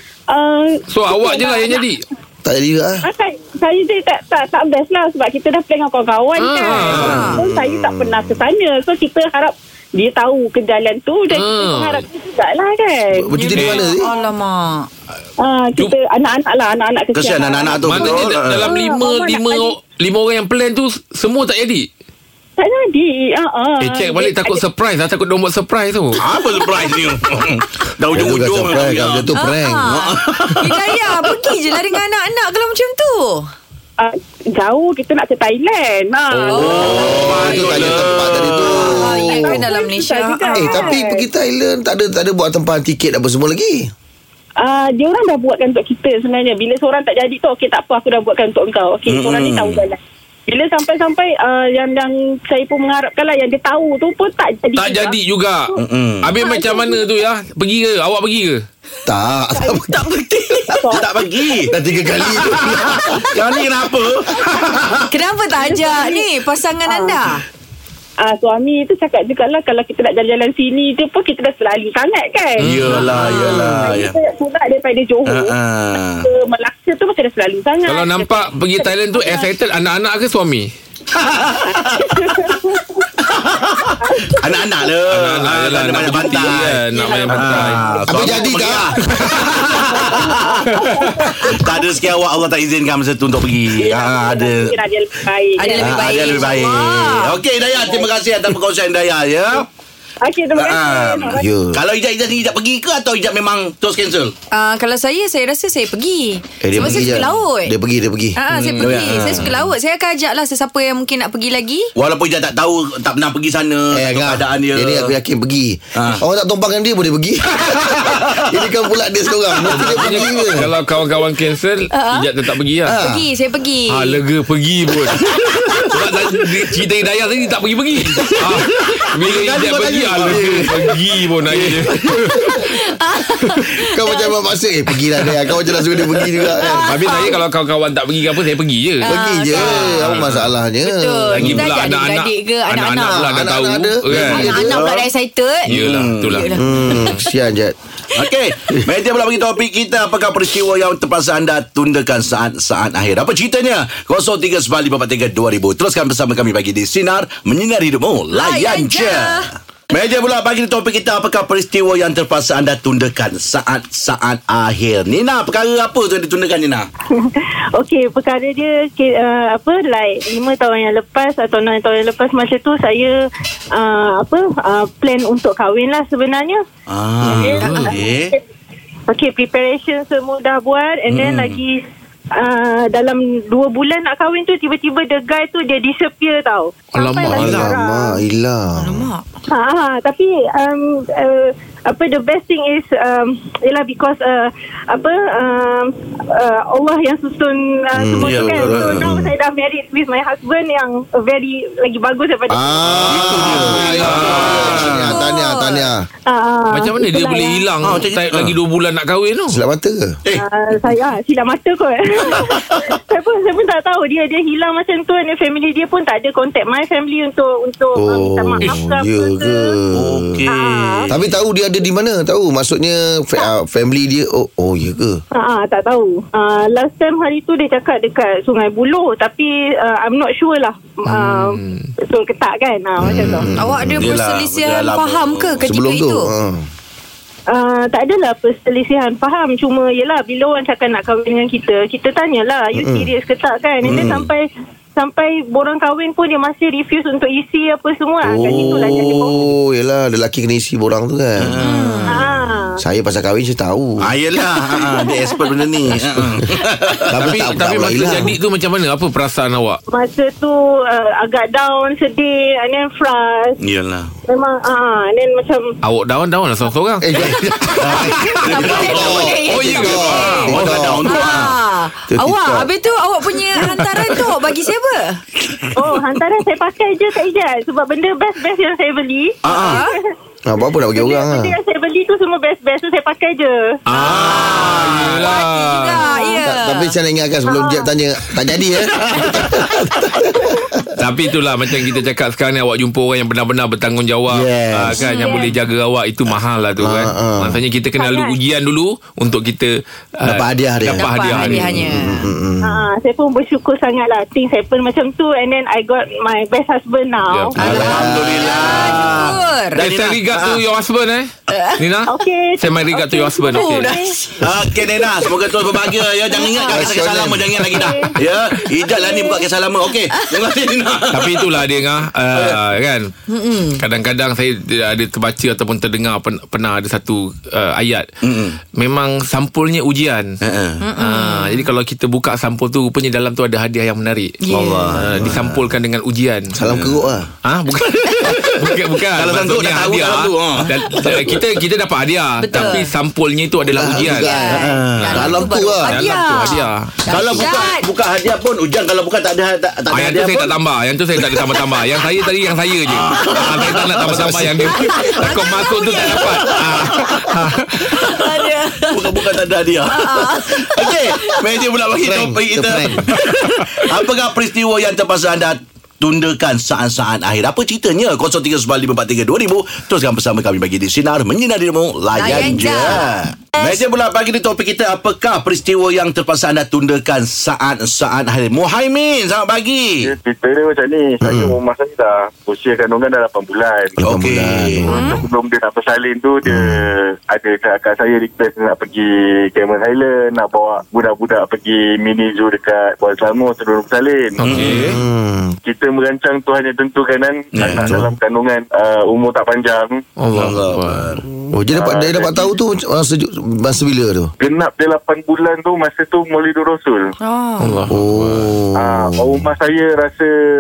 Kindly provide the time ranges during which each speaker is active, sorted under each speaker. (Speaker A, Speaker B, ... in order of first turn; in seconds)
Speaker A: 0.3-1.8, 3.0-13.7, 15.4-19.8, 22.6-24.6, 26.4-26.9, 34.0-37.7, 38.8-41.2, 44.6-55.8, 56.4-57.2, 59.5-62.4, 65.5-66.3, 66.8-67.3, 68.2-79.5, 81.7-83.0, 84.0-84.9, 86.1-88.7, 89.7-92.4, 93.7-96.6, 97.6-98.1, 100.2-101.4, 167.2-173.2, 173.8-176.6, 177.2-178.4, 179.1-181.8, 182.4-188.2, 189.5-202.8, 206.3-207.7, 210.4-219.7, 220.6-221.1, 225.3-233.5, 237.5-244.5, 245.0-249.4, 252.1-252.8, 255.0-255.7, 259.9-263.5, 264.3-265.7, 275.8-280.1, 280.9-283.6, 286.0-286.4, 287.5-287.8, 294.9-295.5, 297.9-298.4, 302.6-307.9, 312.1-314.2, 316.3-317.0, 317.7-318.1, 318.9-319.2
Speaker B: 0.9-2.0, 6.4-7.3, 11.3-12.0, 13.6-13.8, 17.8-21.9, 23.8-26.2, 36.4-38.8, 54.8-58.6, 72.6-73.6, 77.9-80.7, 85.1-88.3, 90.7-91.1, 119.7-123.0, 123.9-132.5, 135.0-135.4, 136.5-140.6, 141.3-144.6, 145.7-147.2, 177.5-178.0, 186.9-187.7, 202.8-205.1, 206.7-209.6, 231.1-231.9, 257.2-259.8, 265.8-267.2, 269.4-270.8, 283.9-286.0, 291.0-301.8, 307.2-308.0, 308.6-309.1, 309.8-313.9, 321.1-323.1, 323.8-328.1, 328.8-330.3, 331.0-334.4, 334.9-336.5, 337.4-344.4, 345.0-345.3, 345.8-347.0, 349.9-358.1, 394.4-395.0, 400.2-401.1, 407.6-408.5
Speaker C: 2.4-3.0, 6.9-8.4, 13.2-14.1, 28.1-30.0, 36.5-39.7, 40.5-43.9, 59.1-60.1, 60.7-61.0, 61.7-63.4, 88.1-89.0, 101.3-101.8, 106.6-108.4, 113.9-120.7, 122.8-123.3, 125.3-126.0, 130.3-130.8, 133.8-137.0, 139.0-141.7, 143.0-144.8, 146.6-147.8, 187.3-189.1, 197.9-199.3, 202.5-206.0, 209.5-210.2, 218.0-220.3, 221.1-225.2, 233.0-234.1, 235.7-236.7, 242.8-243.1, 243.9-244.2, 248.2-251.6, 252.2-254.1, 256.2-256.4, 257.1-258.3, 267.0-271.2, 272.1-272.7, 280.5-281.6, 286.4-290.9, 296.8-297.6, 300.2-302.9, 307.6-308.6, 316.6-317.9, 336.6-337.3, 343.7-346.0, 354.1-354.7, 362.0-363.1, 381.2-381.6, 384.0-385.2, 386.5-386.8, 394.7-395.6, 397.7-398.1, 401.3-404.3, 407.9-409.5
Speaker D: 6.8-7.4, 13.3-14.9, 29.3-33.5, 38.9-41.0, 65.1-67.4, 95.6-97.4, 104.5-107.7, 108.3-111.9, 121.9-122.3, 123.0-124.2, 132.4-134.3, 136.6-137.4, 139.1-140.2, 140.8-143.2, 144.2-145.7, 146.3-147.2, 158.3-159.5, 188.8-189.2, 203.9-205.9, 233.5-236.3, 251.6-252.2, 268.3-270.4, 271.1-275.2, 279.5-280.0, 283.9-286.9, 294.9-295.5, 301.0-302.3, 307.6-309.8, 311.5-311.8, 313.5-315.4, 318.8-319.3, 320.1-320.6, 323.3-323.8, 330.8-331.7, 334.4-335.0, 342.4-342.9, 344.0-347.9, 354.7-357.2, 357.9-359.3, 359.8-361.5, 372.1-373.8, 384.9-385.2, 407.2-407.8
Speaker E: 17.1-18.7, 26.2-31.5, 37.5-38.7, 49.1-49.8, 55.8-56.3, 60.9-61.8, 62.4-65.0, 72.6-74.2, 75.3-76.3, 81.1-82.5, 83.2-90.7, 91.5-94.8, 95.8-99.7, 100.5-104.3, 106.8-107.2, 108.7-109.5, 112.0-115.2, 116.0-116.2, 117.6-118.4, 128.5-130.8, 131.4-132.1, 144.2-145.1, 145.7-146.5, 148.2-166.9, 176.9-178.3, 181.1-181.6, 198.2-199.1, 203.1-205.2, 207.8-208.6, 210.2-210.9, 212.2-213.0, 219.9-221.4, 234.0-235.7, 243.8-244.3, 251.4-251.9, 254.0-257.5, 263.6-264.1, 267.1-271.6, 279.4-279.8, 284.0-285.2, 289.0-290.1, 294.3-294.8, 307.7-310.6, 314.4-321.7, 322.3-322.6, 328.2-328.6, 330.4-330.8, 334.5-335.6, 336.6-337.2, 338.3-341.5, 344.5-345.4, 347.1-350.6, 351.1-352.0, 352.9-354.7, 356.0-356.7, 358.9-380.1, 384.0-385.0, 394.4-395.0, 397.5-397.9, 400.3-401.2
Speaker F: 380.1-384.0, 384.9-394.6, 395.6-400.0, 401.7-402.5, 404.4-407.1, 408.8-410.3